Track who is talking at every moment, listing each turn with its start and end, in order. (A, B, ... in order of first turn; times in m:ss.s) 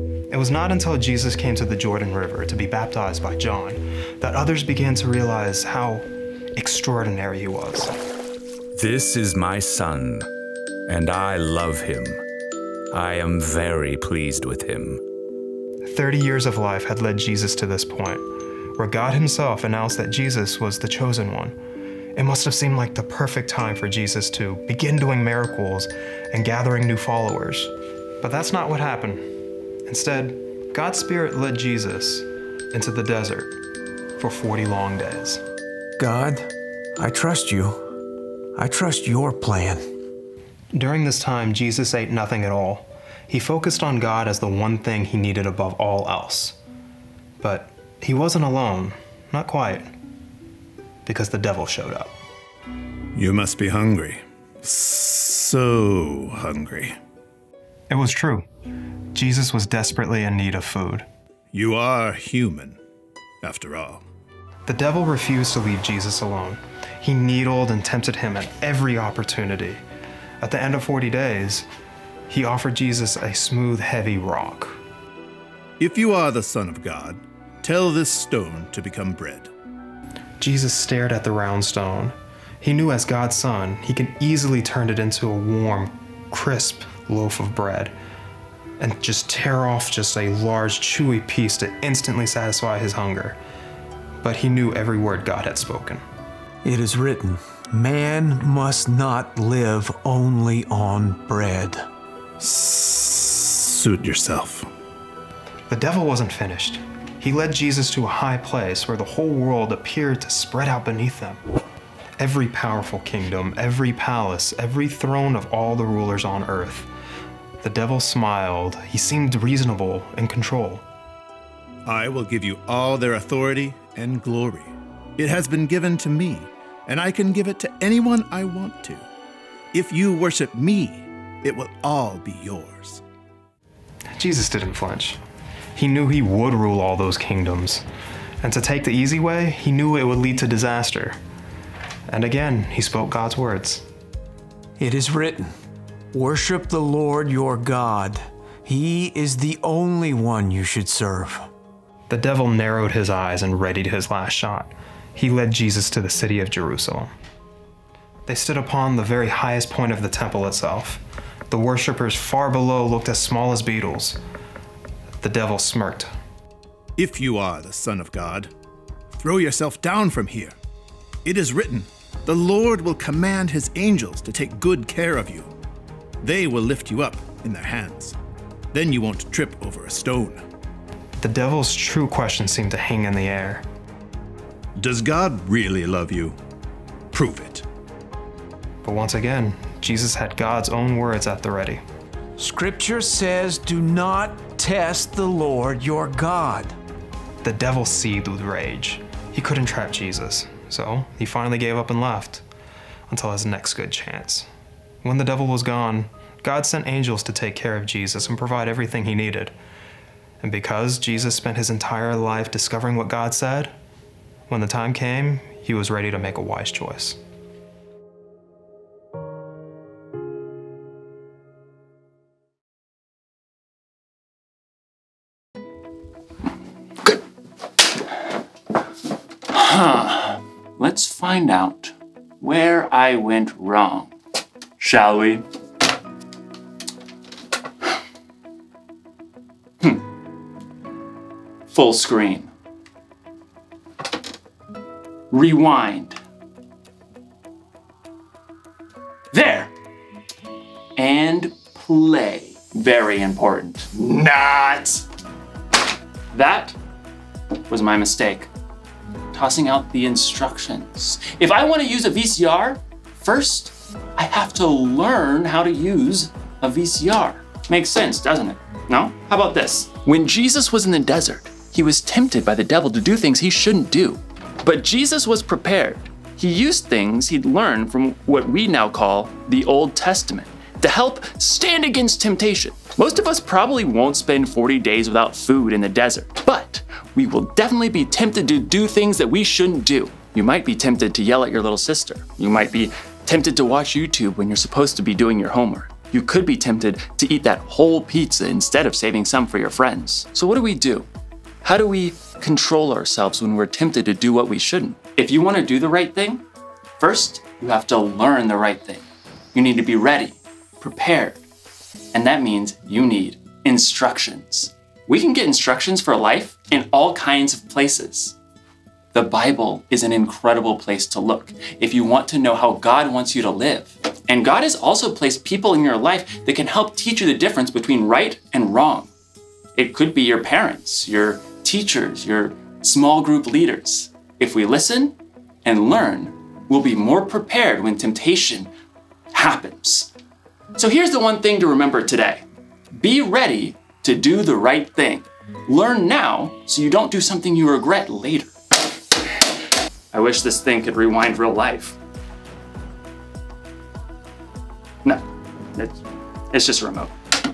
0:00.3-0:07.9 A
0:08.8-0:10.3 B
0:10.9-0:12.2 B
0:12.9-0:15.0 B
0:15.8-0:21.6 A
0:22.1-0:29.2 A
0:29.8-0:33.5 A
0:34.2-0:35.4 A
0:36.0-0:37.8 C
0:38.6-0:39.8 C
0:40.7-0:46.6 A
0:47.4-0:49.9 A
0:51.0-0:52.1 A
0:53.1-0:57.0 D
0:57.9-0:58.4 A
0:59.1-1:01.1 A
1:01.5-1:02.8 D
1:03.4-1:04.0 D
1:04.6-1:09.8 A
1:10.4-1:11.7 A
1:12.3-1:14.8 A
1:15.8-1:19.5 D
1:20.4-1:28.0 A
1:28.8-1:33.4 A
1:34.2-1:36.0 A
1:36.6-1:41.8 C
1:42.4-1:44.7 D
1:45.7-1:51.4 A
1:52.2-1:56.9 A
1:57.6-2:00.8 A
2:01.8-2:09.0 D
2:09.7-2:13.0 D
2:14.1-2:15.2 A
2:15.7-2:17.8 A
2:18.4-2:21.2 A
2:22.1-2:23.8 A
2:24.8-2:25.5 C
2:26.1-2:31.4 C
2:32.1-2:37.1 A
2:38.3-2:44.2 A
2:45.2-2:46.1 A
2:47.0-2:48.5 D
2:49.2-2:50.6 D
2:51.2-2:55.5 D
2:56.2-2:58.2 D
2:58.7-3:00.4 D
3:01.2-3:03.6 A
3:04.8-3:06.4 D
3:07.1-3:07.6 D
3:08.8-3:11.8 A
3:12.4-3:16.7 C
3:17.4-3:22.4 A
3:23.1-3:24.5 A
3:25.0-3:29.5 A
3:30.4-3:33.7 A
3:34.5-3:37.2 A
3:49.5-3:54.1 E
3:54.8-3:55.4 E
4:01.7-4:02.5 E
4:05.3-4:06.2 E
4:09.3-4:09.7 E
4:11.0-4:15.0 E
4:16.3-4:16.8 E
4:17.7-4:18.5 E
4:19.3-5:01.1 E
5:01.6-5:06.4 E
5:07.0-5:11.4 E
5:12.1-5:18.4 E
5:19.1-5:29.1 E
5:29.8-5:38.7 E
5:39.3-5:40.1 E
5:40.8-5:42.4 E
5:43.0-5:48.5 E
5:50.1-5:52.0 E
5:55.7-5:56.0 E
5:56.5-5:57.1 E